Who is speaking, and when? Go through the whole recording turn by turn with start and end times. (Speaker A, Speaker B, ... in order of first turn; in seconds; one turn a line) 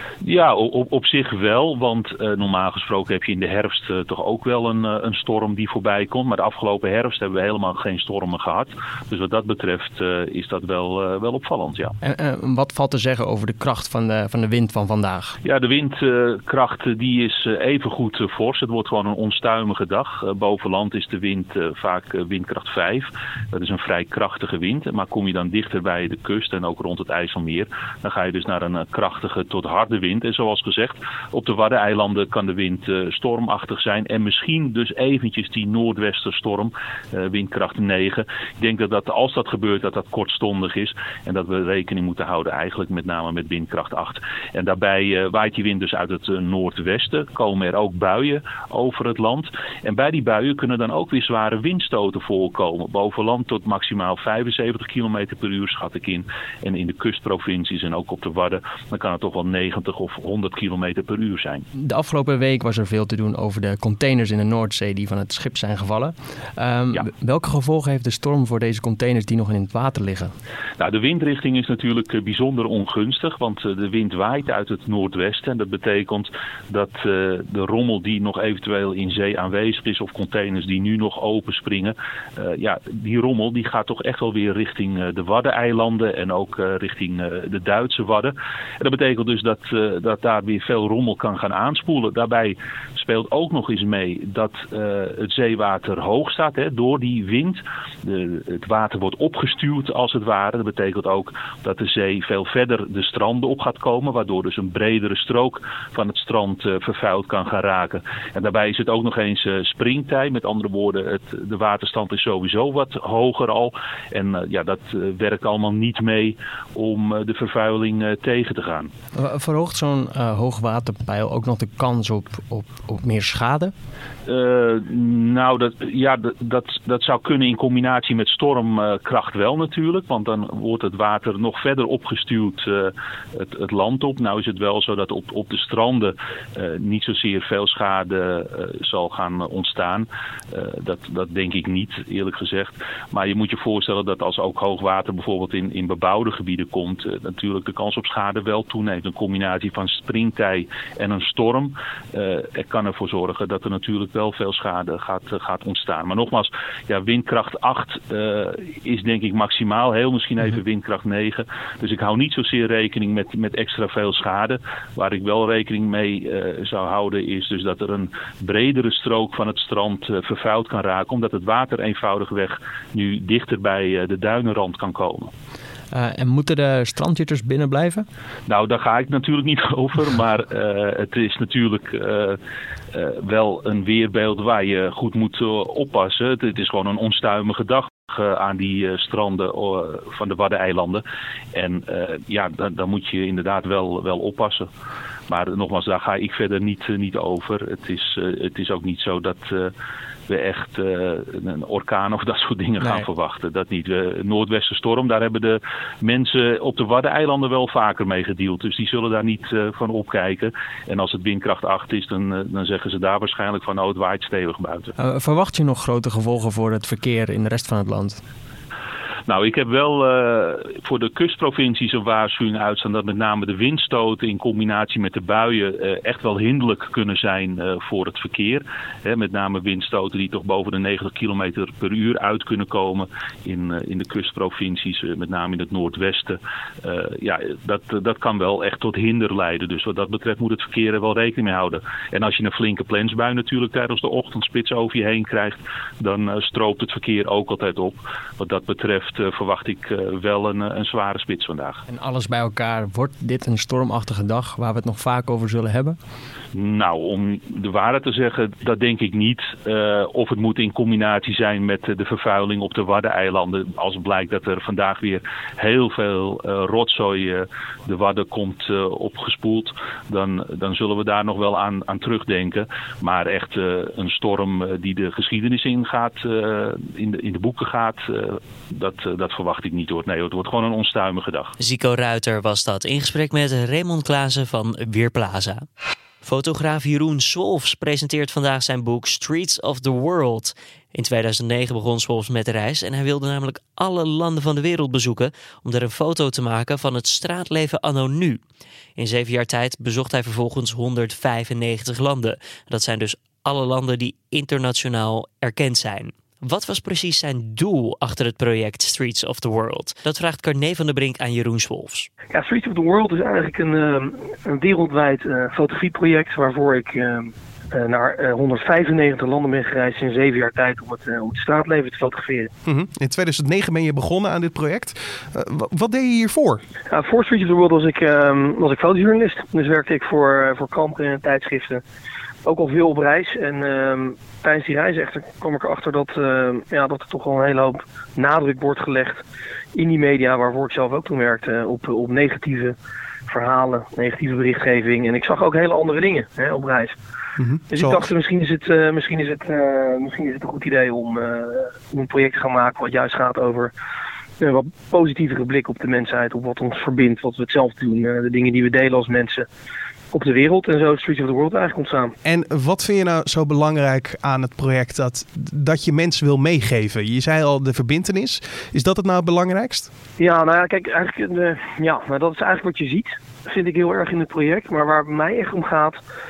Speaker A: 0.2-11.9
Speaker B: 12.0-15.3
Speaker A: 15.4-61.6
Speaker B: 61.8-70.3
Speaker A: 70.8-118.9
Speaker B: 119.2-123.7
Speaker A: 124.3-175.3
Speaker B: 175.9-178.1
Speaker A: 178.5-182.4
Speaker A: 182.9-191.0
Speaker A: 191.5-194.7
Speaker A: 195.3-199.7
Speaker A: 200.3-214.9
Speaker B: 202.8-203.1
Speaker B: 215.0-218.2
Speaker A: 219.3-251.8
Speaker B: 251.9-256.0
Speaker A: 256.5-281.5
Speaker C: 281.6-285.6
Speaker C: 286.2-298.4
Speaker C: 299.0-312.1
Speaker D: 312.3-322.5
Speaker E: 322.6-326.6
Speaker D: 326.9-331.8
Speaker D: 332.4-339.2
Speaker D: 339.7-342.8
Speaker D: 343.3-346.9
Speaker E: 347.4-348.1
Speaker D: 347.7-353.7
Speaker D: 354.4-359.5
Speaker D: 360.1-362.1
Speaker E: 362.2-369.9
Speaker D: 370.2-376.0